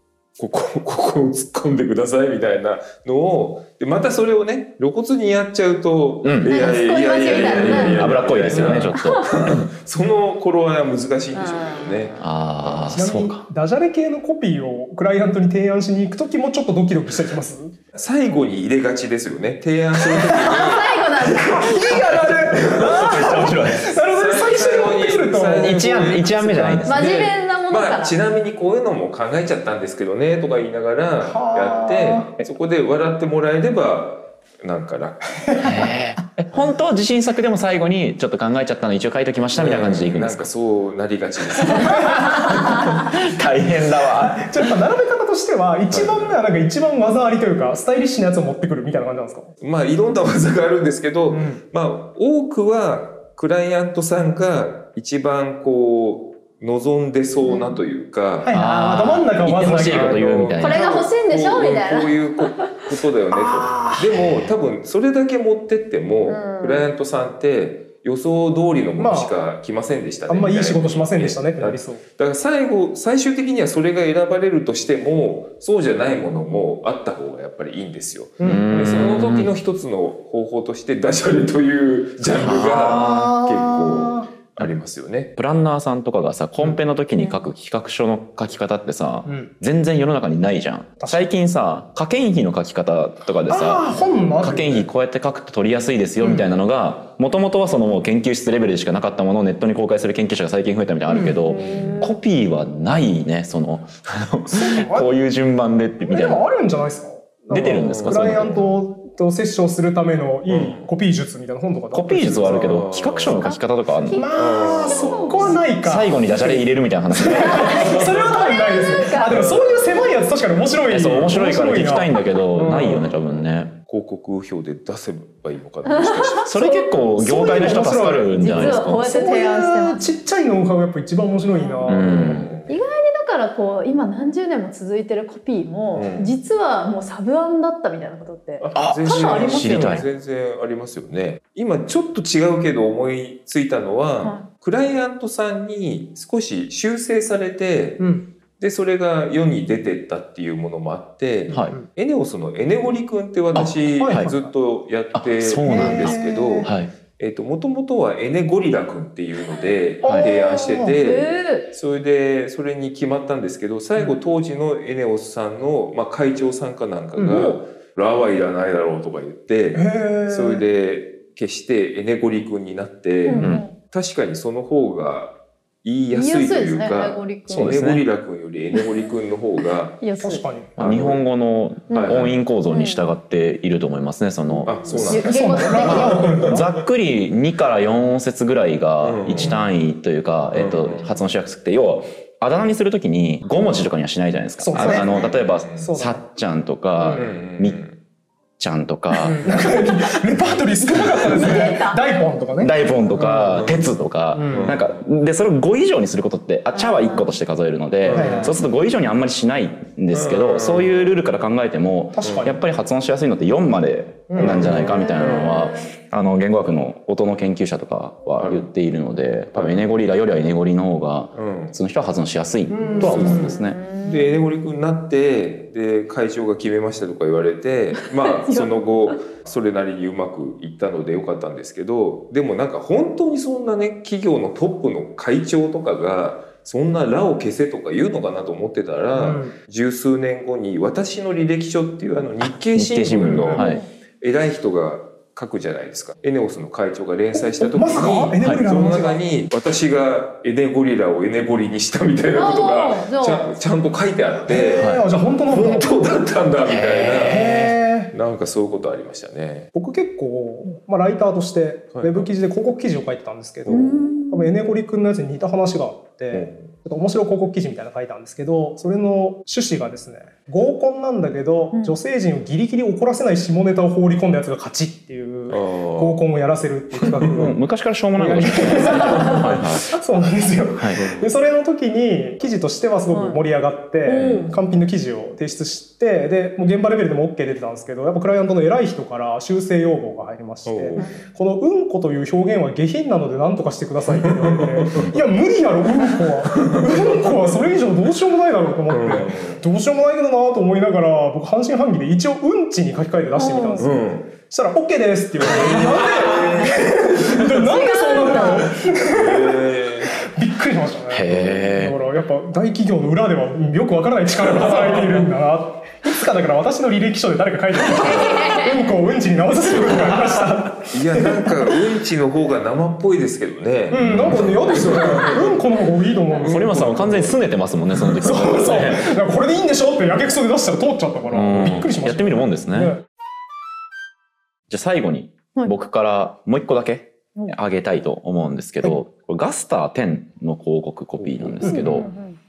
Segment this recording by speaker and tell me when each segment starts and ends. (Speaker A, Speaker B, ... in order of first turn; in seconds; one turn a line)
Speaker A: 0.4-13.0
Speaker B: 6.2-6.8
Speaker C: 6.4-9.3
Speaker B: 7.3-9.4
Speaker C: 11.3-12.1
Speaker B: 12.2-13.4
Speaker D: 12.9-17.7
Speaker A: 17.9-35.8
Speaker D: 20.1-20.6
Speaker C: 20.3-22.1
Speaker D: 21.2-25.8
Speaker B: 22.6-23.9
Speaker B: 25.6-27.1
Speaker C: 26.9-28.2
Speaker D: 31.2-32.3
Speaker D: 35.5-35.7
Speaker B: 35.6-40.5
Speaker A: 39.5-42.4
Speaker D: 41.6-42.5
Speaker B: 42.0-44.7
Speaker D: 44.2-49.5
Speaker A: 45.9-46.4
Speaker A: 49.6-58.5
Speaker D: 51.3-51.6
Speaker C: 57.5-57.8
Speaker D: 58.4-60.2
Speaker B: 58.5-60.8
Speaker A: 59.7-85.3
Speaker C: 60.6-62.7
Speaker D: 63.3-64.1
Speaker B: 64.2-64.5
Speaker C: 66.3-66.9
Speaker D: 69.0-69.3
Speaker D: 70.3-72.0
Speaker D: 78.4-78.7
Speaker B: 78.4-79.5
Speaker B: 82.3-83.4
Speaker D: 82.8-84.3
Speaker B: 85.4-93.9
Speaker D: 89.2-89.5
Speaker D: 91.0-91.3
Speaker D: 93.5-94.9
Speaker B: 94.4-106.4
Speaker C: 101.2-102.2
Speaker A: 101.3-102.0
Speaker D: 104.5-105.1
Speaker D: 106.1-112.8
Speaker B: 107.5-108.6
Speaker A: 107.5-108.7
Speaker A: 110.5-110.9
Speaker B: 111.9-114.2
Speaker A: 112.4-113.5
Speaker C: 113.3-115.6
Speaker D: 114.1-116.6
Speaker A: 114.4-115.6
Speaker B: 115.8-118.1
Speaker D: 117.1-123.0
Speaker C: 117.3-119.6
Speaker A: 119.3-120.2
Speaker B: 120.9-123.8
Speaker A: 122.6-126.5
Speaker C: 125.9-127.1
Speaker B: 126.5-129.0
Speaker D: 127.2-132.5
Speaker C: 128.4-130.1
Speaker A: 128.6-128.9
Speaker B: 131.9-132.6
Speaker A: 131.9-132.8
Speaker C: 132.7-140.1
Speaker A: 135.9-136.3
Speaker A: 138.6-180.0
Speaker B: 138.8-140.1
Speaker C: 144.2-144.5
Speaker D: 148.0-148.3
Speaker B: 153.5-154.3
Speaker D: 154.0-154.5
Speaker B: 155.1-156.9
Speaker D: 155.6-156.7
Speaker D: 160.0-161.0
Speaker C: 161.0-161.7
Speaker D: 167.2-167.5
Speaker D: 169.7-170.7
Speaker C: 173.3-173.8
Speaker B: 173.4-173.7
Speaker C: 176.1-177.8
Speaker B: 177.5-178.1
Speaker C: 178.7-179.1
Speaker C: 180.0-180.4
Speaker D: 180.2-180.7
Speaker A: 180.8-181.2
Speaker B: 180.8-184.7
Speaker C: 181.9-183.0
Speaker A: 181.9-182.4
Speaker A: 184.6-186.7
Speaker C: 184.7-186.3
Speaker D: 185.1-186.7
Speaker B: 185.8-197.8
Speaker A: 189.0-189.7
Speaker A: 190.5-191.2
Speaker D: 194.6-196.2
Speaker A: 194.8-195.9
Speaker A: 197.1-198.0
Speaker B: 198.6-199.7
Speaker D: 199.2-203.7
Speaker A: 199.3-199.6
Speaker B: 201.0-201.6
Speaker C: 201.1-202.0
Speaker B: 202.6-223.8
Speaker A: 203.3-203.8
Speaker D: 204.3-204.8
Speaker A: 204.5-205.0
Speaker C: 206.7-207.3
Speaker A: 208.0-208.6
Speaker D: 208.1-208.6
Speaker A: 210.1-211.1
Speaker D: 212.1-212.6
Speaker A: 212.2-212.6
Speaker D: 214.3-214.8
Speaker A: 214.4-215.6
Speaker C: 214.7-215.9
Speaker A: 218.4-218.7
Speaker A: 219.5-219.9
Speaker A: 221.3-221.8
Speaker D: 222.7-223.5
Speaker A: 223.0-243.7
Speaker C: 223.2-224.4
Speaker C: 228.0-229.1
Speaker D: 239.1-239.5
Speaker B: 242.4-243.8
Speaker D: 243.2-243.6
Speaker C: 243.5-243.9
Speaker A: 244.2-254.9
Speaker D: 247.3-249.2
Speaker C: 252.3-253.5
Speaker D: 254.5-256.0
Speaker B: 254.7-255.0
Speaker A: 255.5-257.6
Speaker B: 256.6-257.8
Speaker D: 257.2-258.1
Speaker A: 258.1-259.7
Speaker D: 259.7-277.6
Speaker A: 261.9-262.3
Speaker A: 263.7-264.0
Speaker C: 263.7-264.5
Speaker A: 266.3-266.7
Speaker A: 275.5-276.2
Speaker A: 276.9-277.5
Speaker B: 277.2-279.9
Speaker D: 278.2-321.7
Speaker A: 281.0-281.3
Speaker C: 283.1-283.4
Speaker C: 284.1-284.5
Speaker A: 284.1-284.6
Speaker A: 290.7-291.2
Speaker A: 294.1-295.1
Speaker A: 296.5-297.4
Speaker A: 298.9-299.6
Speaker C: 303.4-303.9
Speaker A: 303.8-304.3
Speaker A: 305.4-307.6
Speaker C: 305.8-306.7
Speaker C: 307.4-308.7
Speaker A: 308.8-310.2
Speaker B: 311.1-312.0
Speaker A: 314.4-315.3
Speaker C: 317.9-318.7
Speaker A: 318.0-318.5
Speaker A: 319.8-320.0
Speaker A: 320.9-325.7
Speaker D: 323.9-326.7
Speaker B: 324.1-324.5
Speaker B: 326.4-329.1
Speaker A: 326.4-327.4
Speaker A: 327.9-328.4
Speaker D: 328.2-333.0
Speaker B: 331.3-333.0
Speaker A: 331.6-331.9
Speaker B: 334.7-342.1
Speaker A: 341.4-342.0
Speaker C: 341.6-342.4